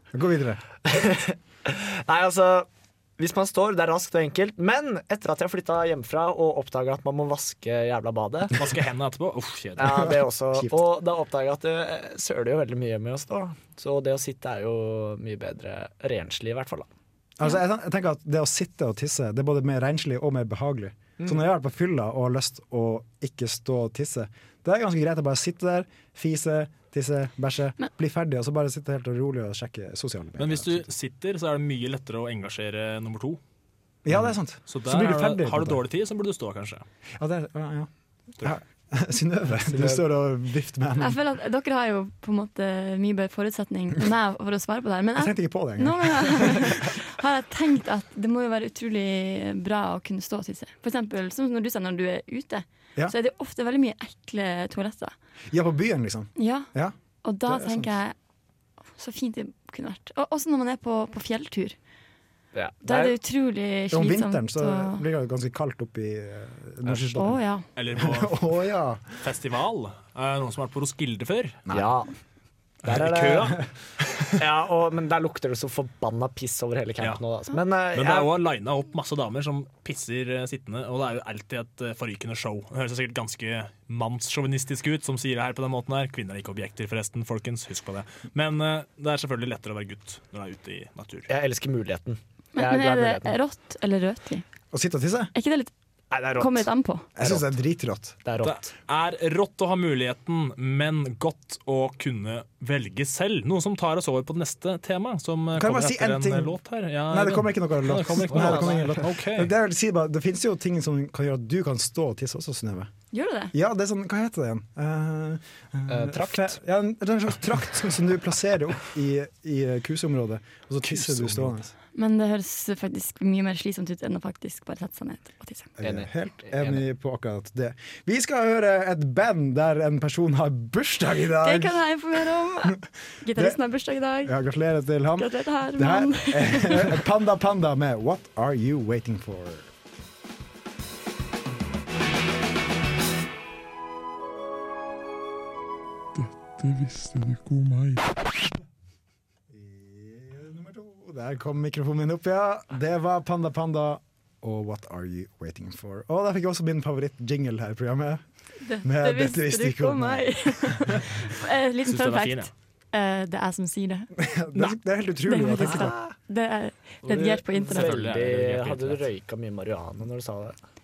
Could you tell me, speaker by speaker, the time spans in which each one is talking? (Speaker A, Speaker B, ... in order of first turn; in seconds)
Speaker A: 0.1-0.6, 17.4-30.9, 34.0-35.8, 37.2-37.9, 38.4-41.2, 45.2-46.9, 55.5-57.0, 57.5-57.9, 63.9-67.4, 68.0-69.0, 94.7-95.3, 97.2-98.2, 105.5-106.6, 107.1-112.9, 113.5-121.7, 125.8-131.8, 133.3-133.6, 134.2-139.7, 149.5-158.2, 158.8-161.0, 164.2-166.0
Speaker B: 0.8-8.7, 9.8-16.9, 39.6-40.0, 62.5-63.2, 71.7-72.1, 72.8-73.6, 74.4-78.3, 91.3-93.3, 96.1-96.7, 97.2-97.5, 98.2-98.7, 108.2-109.0, 115.9-116.6, 125.8-126.8, 165.7-166.1, 167.1-170.6
Speaker C: 8.5-10.1, 30.4-33.4, 34.7-36.9, 67.8-68.4, 69.2-71.6, 72.8-73.6, 77.9-91.3, 98.4-109.5, 161.8-162.5, 167.6-169.1
Speaker D: 41.0-55.1, 56.4-56.7, 57.2-58.1, 59.0-61.8, 62.8-65.0, 67.2-67.7, 92.5-94.4, 95.3-95.7, 96.4-97.1, 113.1-113.5, 122.0-125.7, 131.4-134.3, 135.2-137.0, 158.6-164.1, 165.3-168.1
Speaker E: 146.1-148.1